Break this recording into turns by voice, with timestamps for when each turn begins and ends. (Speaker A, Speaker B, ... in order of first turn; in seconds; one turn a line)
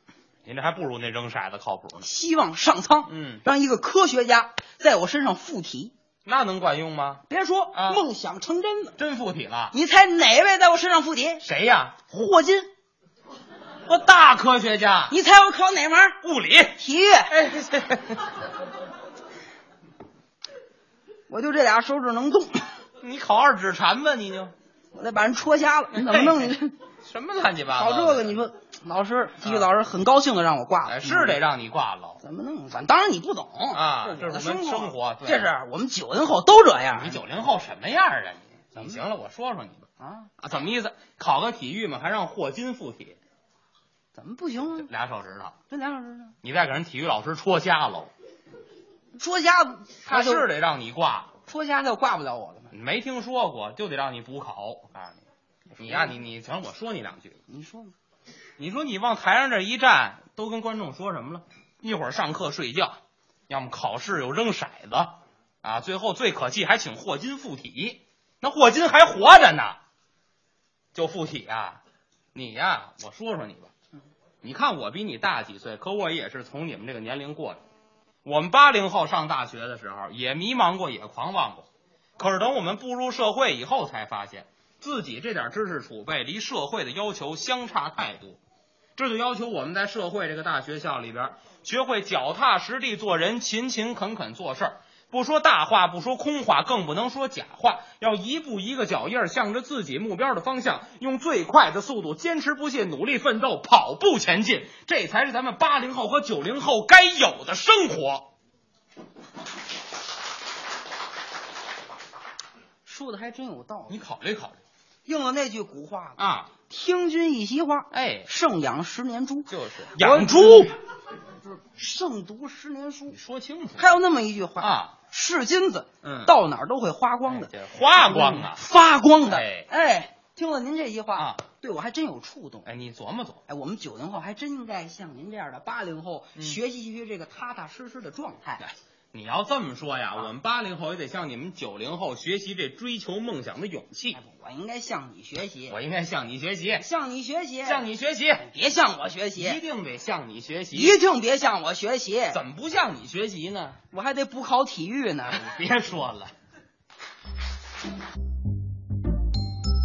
Speaker A: 0.4-2.1
Speaker B: 2.0-5.9
Speaker A: 3.1-3.4
Speaker A: 6.2-8.0
Speaker B: 7.3-8.9
Speaker A: 9.0-9.7
Speaker B: 9.7-11.4
Speaker A: 11.4-11.9
Speaker B: 12.1-12.7
Speaker A: 13.8-15.1
Speaker B: 15.1-16.2
Speaker A: 16.2-18.4
Speaker B: 16.8-17.3
Speaker B: 21.3-22.7
Speaker A: 23.0-24.5
Speaker B: 24.9-26.7
Speaker A: 25.9-26.5
Speaker A: 27.0-28.4
Speaker B: 27.7-31.4
Speaker A: 29.4-29.7
Speaker A: 30.9-32.2
Speaker B: 32.2-37.2
Speaker A: 33.7-35.5
Speaker A: 36.9-39.9
Speaker B: 40.0-40.3
Speaker A: 40.4-43.2
Speaker B: 44.1-44.9
Speaker A: 44.8-45.5
Speaker B: 45.7-46.3
Speaker A: 46.4-48.1
Speaker B: 49.1-50.5
Speaker A: 50.0-51.3
Speaker B: 51.5-52.7
Speaker A: 52.7-55.2
Speaker B: 55.8-56.1
Speaker A: 55.8-57.4
Speaker B: 57.5-57.9
Speaker A: 58.6-63.0
Speaker A: 63.5-69.8
Speaker A: 70.9-71.8
Speaker A: 72.3-73.7
Speaker A: 74.4-77.6
Speaker A: 78.2-81.7
Speaker A: 82.2-88.4
Speaker A: 89.0-108.3
Speaker B: 112.8-114.0
Speaker A: 113.9-114.6
Speaker B: 115.0-120.7
Speaker A: 116.2-116.5
Speaker A: 117.9-118.3
Speaker A: 119.5-120.7
Speaker B: 121.5-123.2
Speaker A: 123.1-123.8
Speaker B: 123.8-132.7
Speaker A: 124.6-124.9
Speaker A: 126.0-126.3
Speaker A: 127.2-128.6
Speaker A: 129.3-129.7
Speaker A: 131.2-131.4
Speaker A: 132.6-133.4
Speaker B: 133.5-138.7
Speaker A: 139.1-144.2
Speaker B: 144.1-145.8
Speaker A: 145.7-146.8
Speaker B: 146.8-147.9
Speaker A: 147.6-148.4
Speaker B: 148.4-149.6
Speaker A: 149.3-151.0
Speaker B: 150.7-152.4
Speaker A: 152.3-153.8
Speaker B: 153.9-155.4
Speaker A: 155.3-156.3